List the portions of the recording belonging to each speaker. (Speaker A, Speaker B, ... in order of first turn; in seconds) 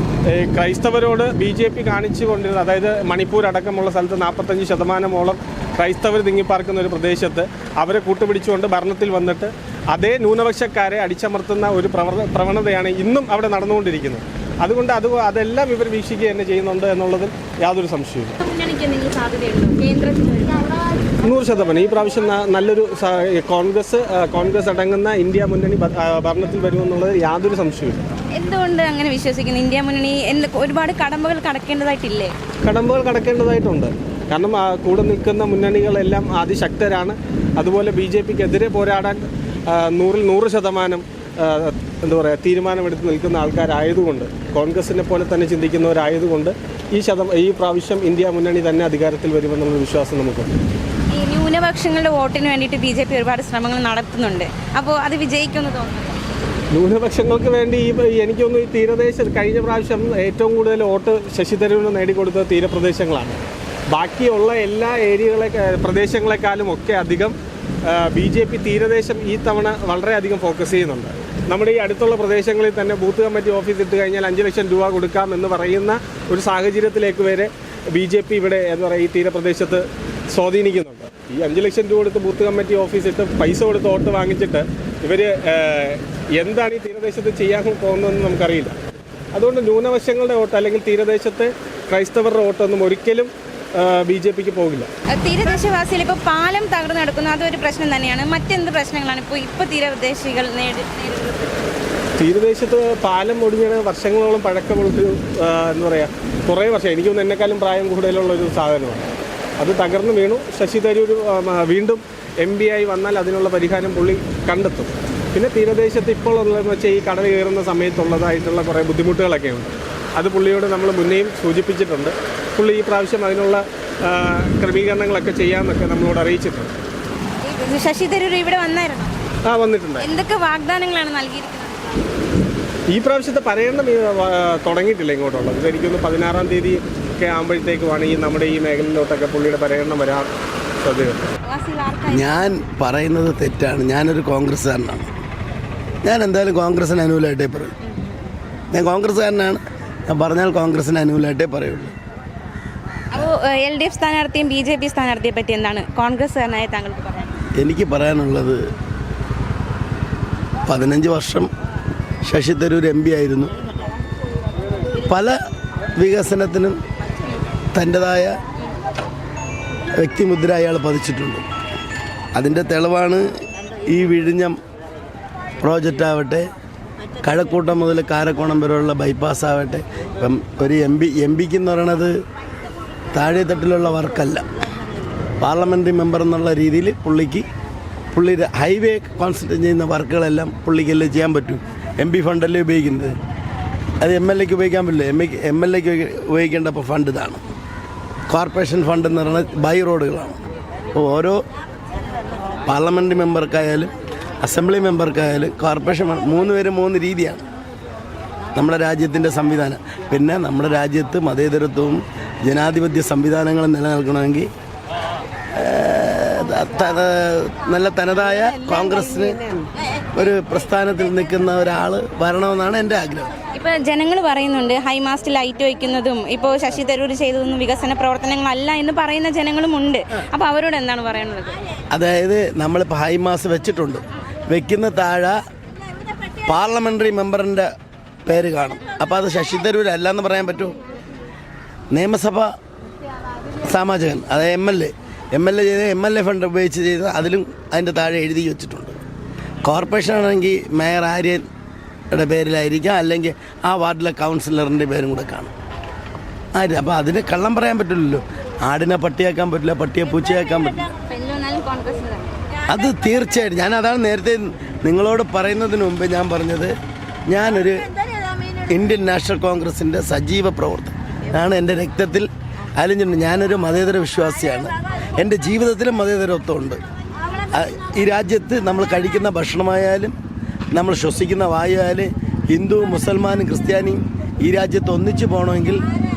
Speaker A: 0.4-18.3, 21.2-28.1, 32.7-39.2, 39.7-50.5, 56.8-63.4, 63.9-67.3, 67.9-88.8, 89.3-94.9, 102.2-109.0, 109.6-126.7, 129.5-130.0, 132.9-140.3, 140.8-141.2
Speaker B: 18.4-20.7, 28.4-32.3, 51.1-56.2, 95.1-101.7, 127.5-129.1, 130.0-132.1, 141.5-142.6, 147.9-148.1, 153.1-157.3, 218.4-219.3, 223.6-231.6, 261.0-262.3
Speaker C: 142.1-145.1, 146.0-147.7, 148.7-151.9, 157.6-158.6, 160.7-161.5, 162.2-163.5, 165.1-165.3, 166.0-166.8, 167.7-168.3, 170.0-171.4, 172.4-173.2, 173.9-174.6, 175.6-176.4, 177.2-182.1, 183.1-184.4, 185.4-187.5, 188.1-193.2, 194.0-197.4, 198.3-200.4, 200.9-201.4, 202.7-203.9, 204.4-207.4, 208.6-214.5, 215.6-219.4, 220.2-223.3, 231.9-235.4, 236.5-237.7, 238.3-240.8, 241.9-242.5, 243.7-249.0, 249.6-251.4, 252.1-255.5, 256.6-260.8, 262.8-266.7, 267.3-267.9, 268.7-276.8, 277.5-280.1, 280.7-285.8